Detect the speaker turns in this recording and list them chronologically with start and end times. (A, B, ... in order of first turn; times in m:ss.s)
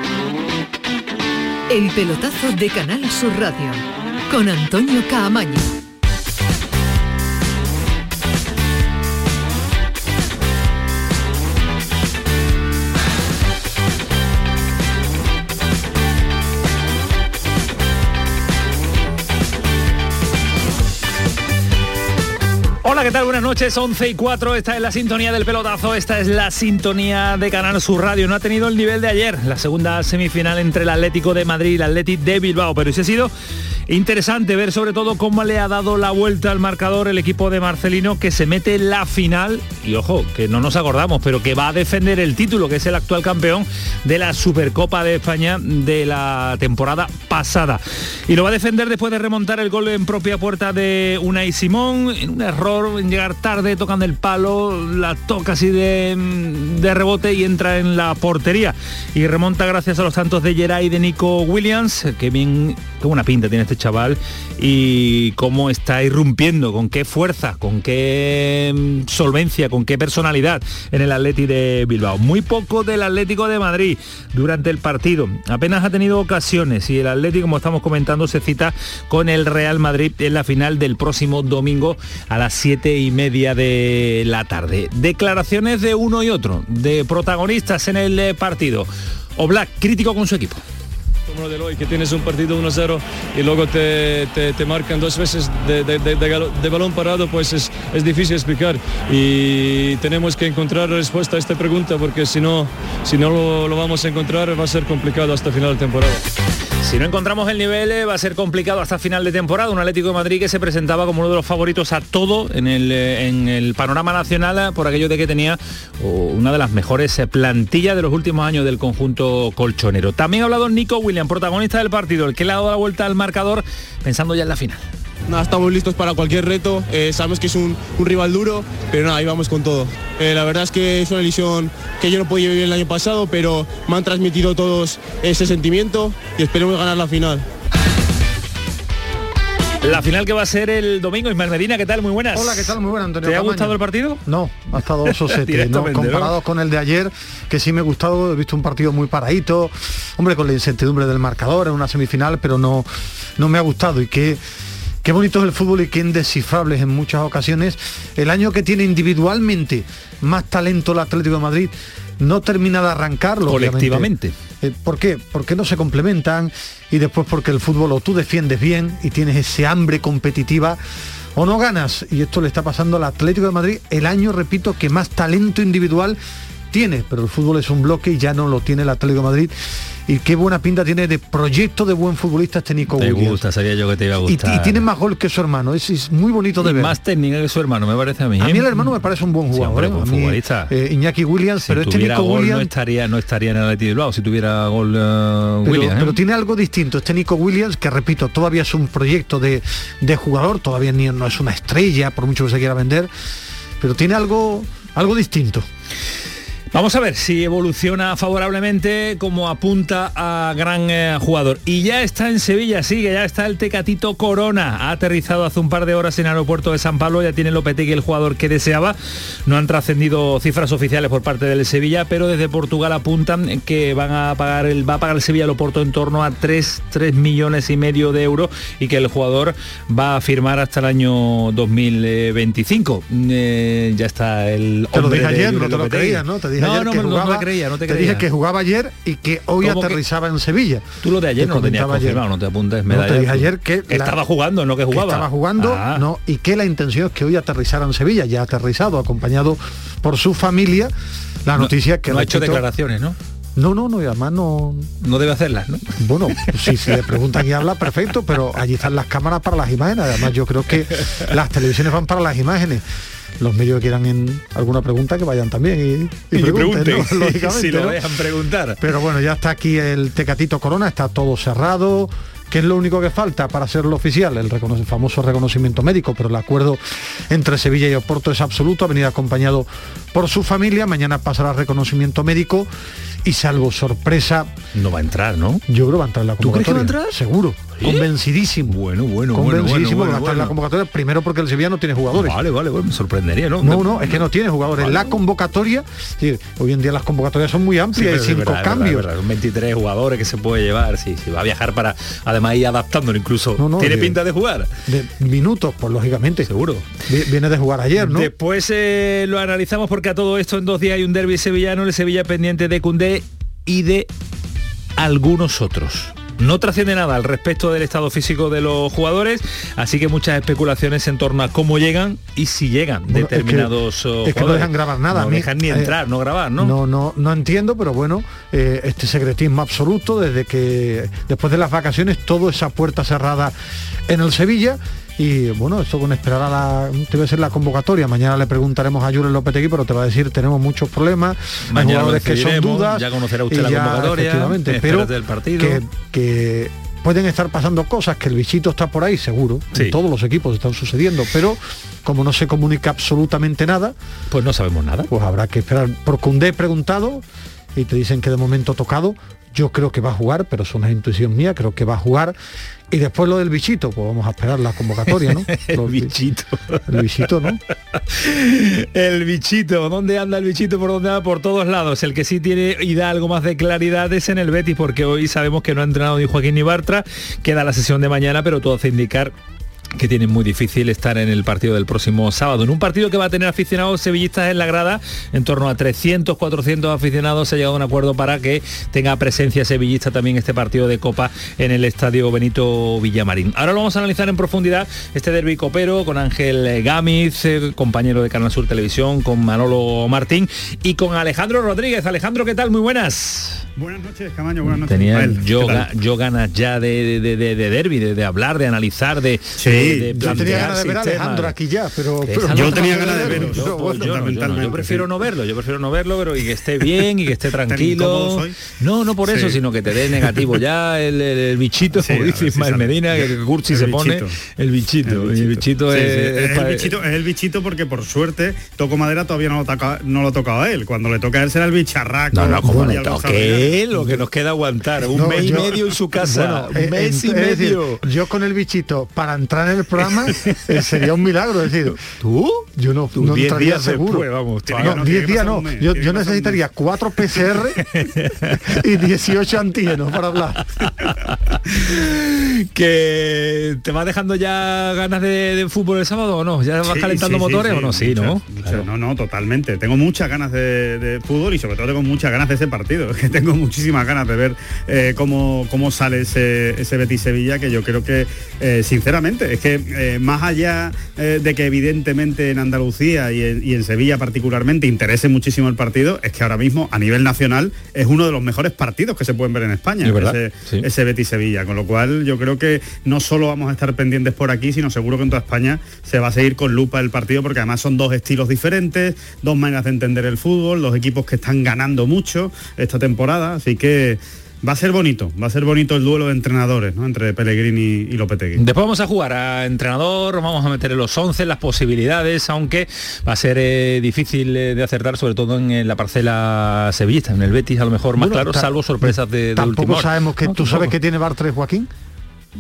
0:01.7-0:05.7 A
0:22.8-0:33.3 B
0:33.9-1:30.6 B
1:31.3-1:46.2 C
1:46.8-2:04.8 B
2:05.3-2:17.4 D
2:19.8-2:24.2 B
2:22.3-2:34.4 E
2:25.1-2:26.3 B
2:35.0-2:44.1 E
2:43.5-2:44.3 B
2:44.6-2:50.8 E
2:51.3-2:56.2 E
2:56.7-2:59.5 E
3:00.0-3:03.4 E
3:03.0-3:04.8 B
3:04.2-3:07.0 E
3:06.6-3:08.7 B
3:08.4-3:12.7 E
3:09.5-3:10.7 B
3:11.6-3:16.2 B
3:15.6-3:23.1 E
3:23.8-3:25.6 E
3:26.7-3:58.3 B
3:54.9-4:02.2 E
3:59.6-4:00.0 B
4:01.0-4:06.0 B
4:02.9-4:04.2 E
4:04.9-4:10.9 E
4:11.4-4:12.6 E
4:11.6-4:13.2 B
4:13.6-4:14.9 E
4:15.0-4:16.9 B
4:16.0-4:22.8 E
4:23.4-4:28.0 E
4:26.3-4:28.8 B
4:28.8-4:42.7 E
4:43.2-4:44.5 E
4:44.7-4:45.6 B
4:45.7-4:48.8 E
4:46.4-4:47.2 B
4:47.8-4:48.1 B
4:48.7-4:50.6 B
4:49.3-4:52.4 E
4:52.1-4:55.2 B
4:53.6-4:59.1 E
4:57.9-5:04.7 B
5:03.6-5:04.2 E
5:04.9-5:06.5 E
5:06.5-5:06.9 B
5:07.0-5:08.3 E
5:08.0-5:14.1 B
5:15.0-5:26.7 B
5:23.1-5:23.7 E
5:24.2-5:26.0 E
5:26.6-5:33.5 E
5:34.1-5:53.9 E
5:41.7-5:45.8 B
5:54.3-5:55.1 B
5:55.1-5:57.2 E
5:57.7-6:02.4 E
6:02.9-6:06.2 E
6:05.2-6:06.8 B
6:06.8-6:07.6 E
6:08.1-6:19.3 B
6:20.0-6:43.6 B
6:43.8-6:45.9 F
6:44.8-6:51.5 B
6:49.6-6:50.7 F
6:50.2-6:54.1 E
6:52.2-7:06.9 B
6:52.5-6:55.1 F
6:57.7-6:58.6 F
6:59.2-6:59.6 F
7:00.2-7:00.5 F
7:02.0-7:04.4 F
7:05.0-7:13.8 F
7:12.3-7:18.0 B
7:12.5-7:13.0 E
7:15.1-7:22.0 E
7:20.3-7:20.7 B
7:22.0-7:25.0 B
7:22.7-7:27.8 E
7:24.7-7:26.6 F
7:27.8-7:28.7 B
7:28.6-7:30.6 E
7:30.9-7:38.8 B
7:36.9-8:18.6 F
8:00.0-8:00.9 B
8:18.6-8:30.9 B
8:28.2-8:31.9 E